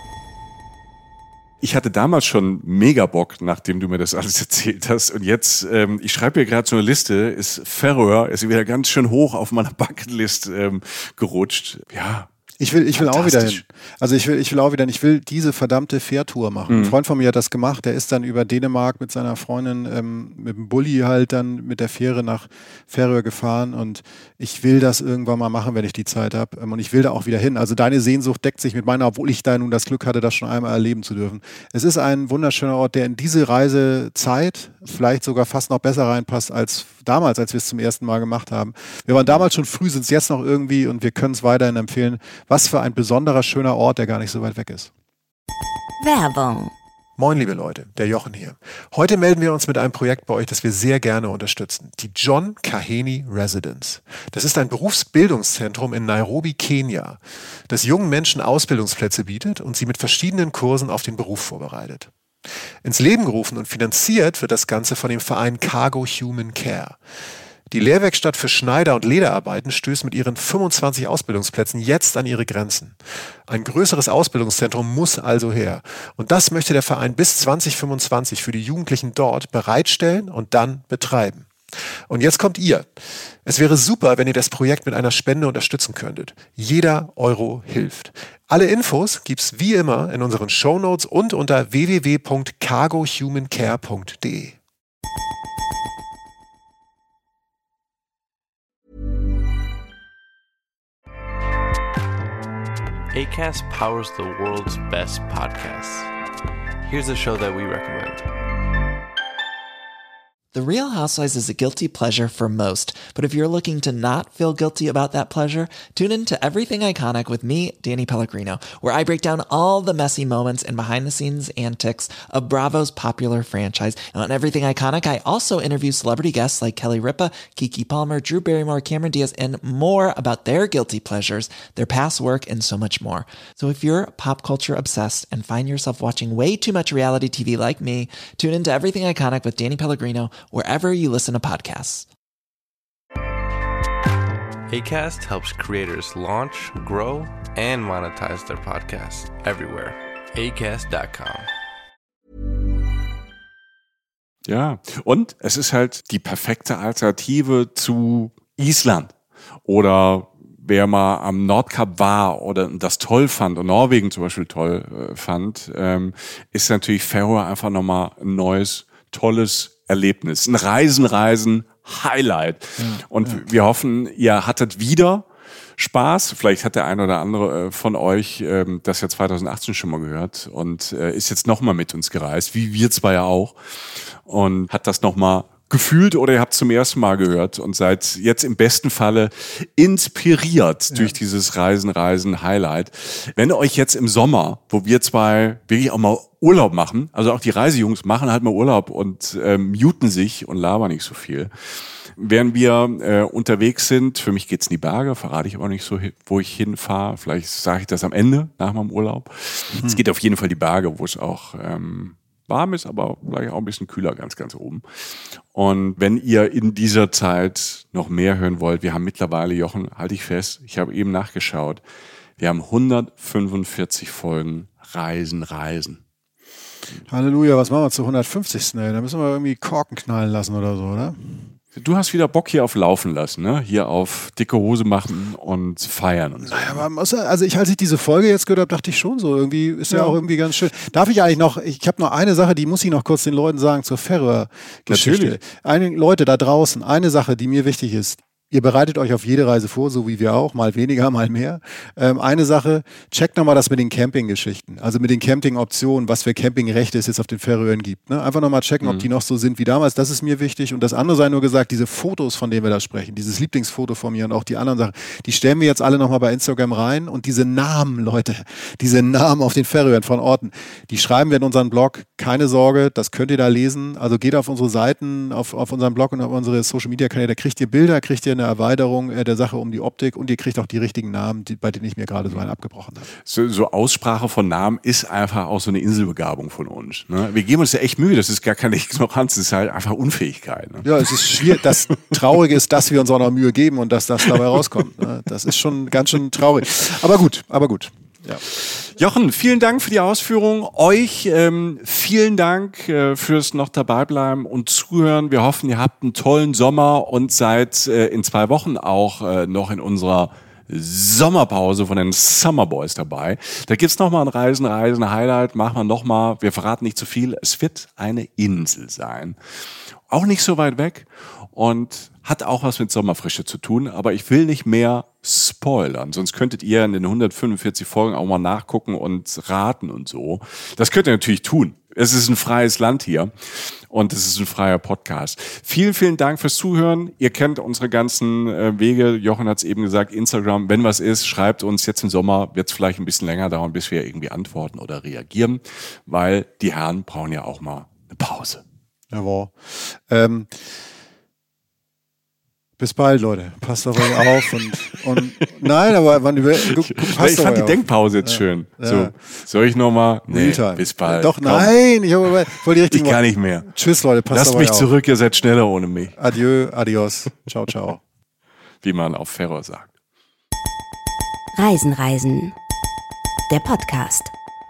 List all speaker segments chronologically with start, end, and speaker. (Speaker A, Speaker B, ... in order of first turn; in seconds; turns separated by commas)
Speaker A: 1.6-12.3, Speaker B: 12.6-44.9, Speaker A: 12.9-13.6, Speaker A: 16.7-16.9, Speaker C: 46.0-46.7, Speaker B: 47.2-62.1, Speaker B: 62.8-67.0, Speaker B: 67.7-73.0, Speaker B: 73.5-81.5, Speaker B: 82.1-82.9, Speaker B: 83.4-94.6, Speaker D: 103.1-106.1, Speaker D: 106.8-108.3, Speaker E: 110.5-142.1, Speaker D: 144.7-151.5, Speaker A: 154.4-159.1, Speaker A: 159.6-201.5, Speaker B: 172.8-173.4, Speaker A: 202.2-214.8, Speaker A: 215.5-221.8, Speaker A: 222.4-226.0, Speaker B: 227.1-231.5, Speaker A: 231.8-236.8, Speaker B: 236.5-283.1, Speaker A: 239.9-240.2, Speaker A: 244.9-245.4, Speaker A: 283.2-291.5, Speaker B: 290.8-298.4, Speaker A: 298.5-319.4, Speaker A: 320.1-348.6, Speaker B: 349.1-350.5, Speaker B: 352.8-359.1, Speaker A: 356.6-361.7, Speaker B: 360.3-364.9, Speaker A: 362.9-363.7, Speaker A: 364.3-366.2, Speaker B: 366.2-368.0, Speaker A: 368.8-369.9, Speaker C: 371.6-372.6, Speaker C: 373.5-374.3